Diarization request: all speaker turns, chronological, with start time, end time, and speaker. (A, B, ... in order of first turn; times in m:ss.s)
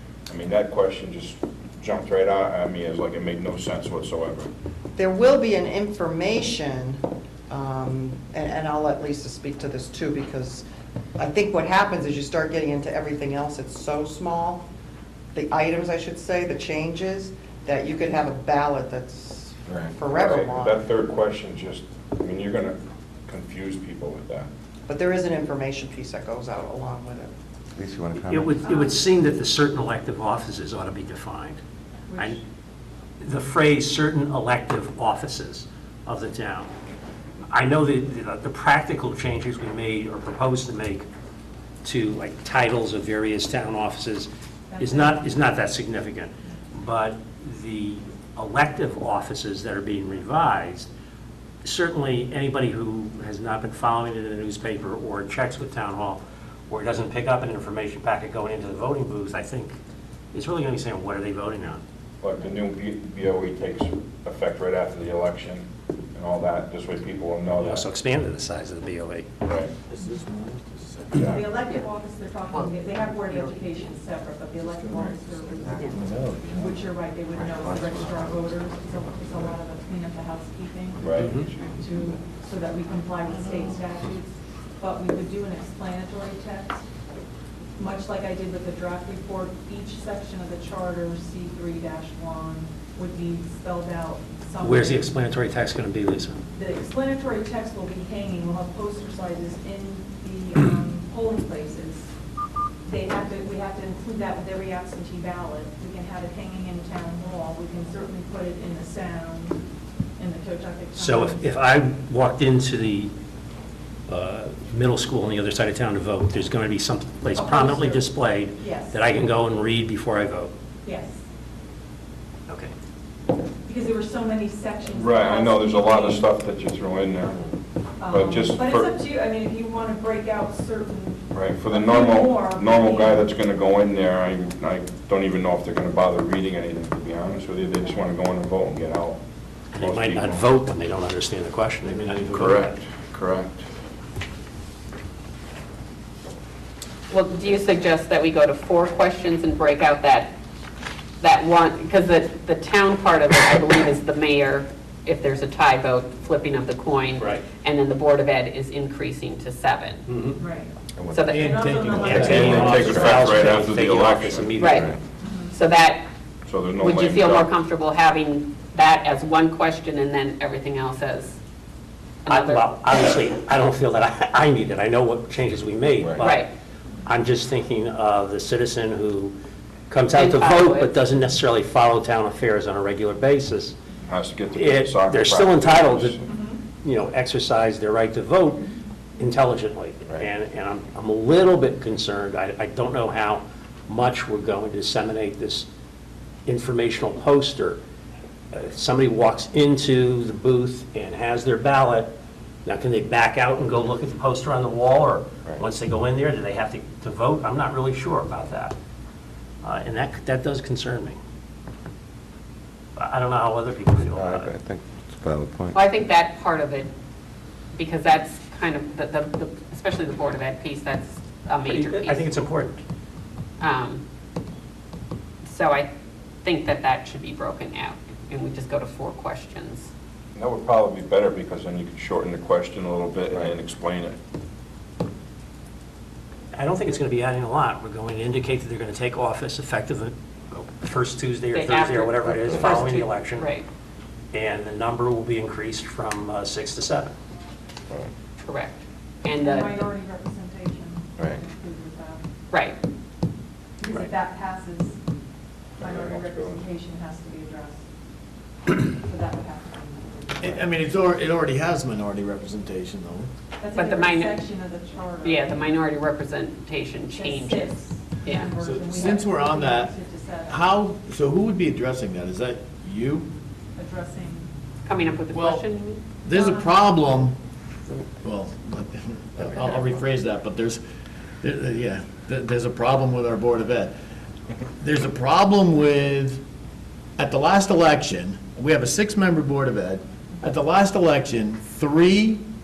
0:00.3-0:04.5 A
0:05.0-0:10.6 B
0:11.2-0:14.6 B
0:15.3-0:20.8 B
0:19.7-0:24.5 A
0:24.8-0:27.3 B
0:27.8-0:28.7 C
0:28.2-0:31.6 D
0:28.6-0:29.0 E
0:32.1-0:32.4 E
0:32.2-0:32.4 D
0:33.2-0:36.7 D
0:37.5-0:41.0 D
0:41.8-0:50.9 D
0:44.7-0:45.6 E
0:51.6-0:59.8 D
1:00.3-1:01.8 D
1:02.2-1:07.8 A
1:07.6-1:09.3 D
1:09.4-1:09.7 A
1:09.9-1:11.3 F
1:11.1-1:11.5 A
1:11.2-1:21.2 E
1:12.5-1:13.7 G
1:15.6-1:16.6 C
1:15.8-1:16.8 F
1:17.3-1:18.7 C
1:21.0-1:21.8 A
1:21.2-1:21.5 D
1:21.8-1:26.9 E
1:21.8-1:22.2 C
1:27.8-1:35.2 E
1:34.6-1:36.4 D
1:36.5-1:42.1 E
1:42.8-1:49.6 E
1:50.2-1:51.6 E
1:51.0-1:53.1 D
1:54.1-2:00.5 D
1:57.3-1:59.0 E
2:00.8-2:01.2 E
2:03.6-2:06.3 E
2:04.9-2:07.4 A
2:08.0-2:13.3 E
2:08.1-2:08.9 A
2:11.3-2:19.2 A
2:19.7-2:22.8 D
2:19.7-2:20.5 A
2:22.3-2:23.6 A
2:27.1-2:30.3 G
2:31.2-2:40.1 G
2:37.2-2:37.4 D
2:40.1-2:40.4 D
2:40.4-2:40.7 E
2:41.0-2:43.3 C
2:41.1-2:41.6 G
2:41.3-2:42.8 F
2:41.4-2:43.1 E
2:42.2-2:45.0 D
2:42.2-2:44.5 A
2:44.6-2:44.9 G
2:45.2-2:45.6 E
2:45.5-2:46.0 G
2:46.4-2:47.5 A
2:46.7-2:51.4 G
2:52.2-2:52.6 G
2:52.3-2:56.5 D
2:56.2-2:56.5 G
2:57.0-2:59.3 D
2:59.9-3:03.8 D
3:00.1-3:00.9 G
3:04.0-3:06.3 A
3:04.5-3:06.2 D
3:06.2-3:06.6 E
3:06.8-3:15.7 D
3:16.4-3:17.8 D
3:18.5-3:22.1 D
3:22.6-3:28.7 D
3:29.6-3:31.2 D
3:33.0-3:34.5 D
3:34.0-3:35.8 C
3:35.7-3:36.9 G
3:37.7-3:42.2 G
3:41.6-3:42.8 D
3:43.6-3:44.0 G
3:45.4-3:45.9 G
3:46.4-3:49.9 G
3:50.3-3:54.2 A
3:56.5-4:03.5 D
4:01.5-4:03.6 G
4:02.2-4:03.0 C
4:04.3-4:07.1 D
4:08.4-4:09.8 G
4:09.4-4:12.2 E
4:12.5-4:12.8 G
4:13.8-4:15.0 E
4:15.8-4:16.6 A
4:15.8-4:17.8 E
4:18.6-4:20.7 E
4:20.4-4:23.3 F
4:23.6-4:25.8 E
4:23.7-4:24.4 G
4:25.2-4:28.5 G
4:27.1-4:30.7 E
4:28.6-4:29.9 F
4:30.5-4:33.3 F
4:33.7-4:34.5 E
4:34.8-4:36.0 G
4:36.2-4:37.4 F
4:36.3-4:37.1 E
4:37.9-4:40.8 F
4:41.4-4:43.9 F
4:44.8-4:46.4 F
4:47.2-4:52.4 F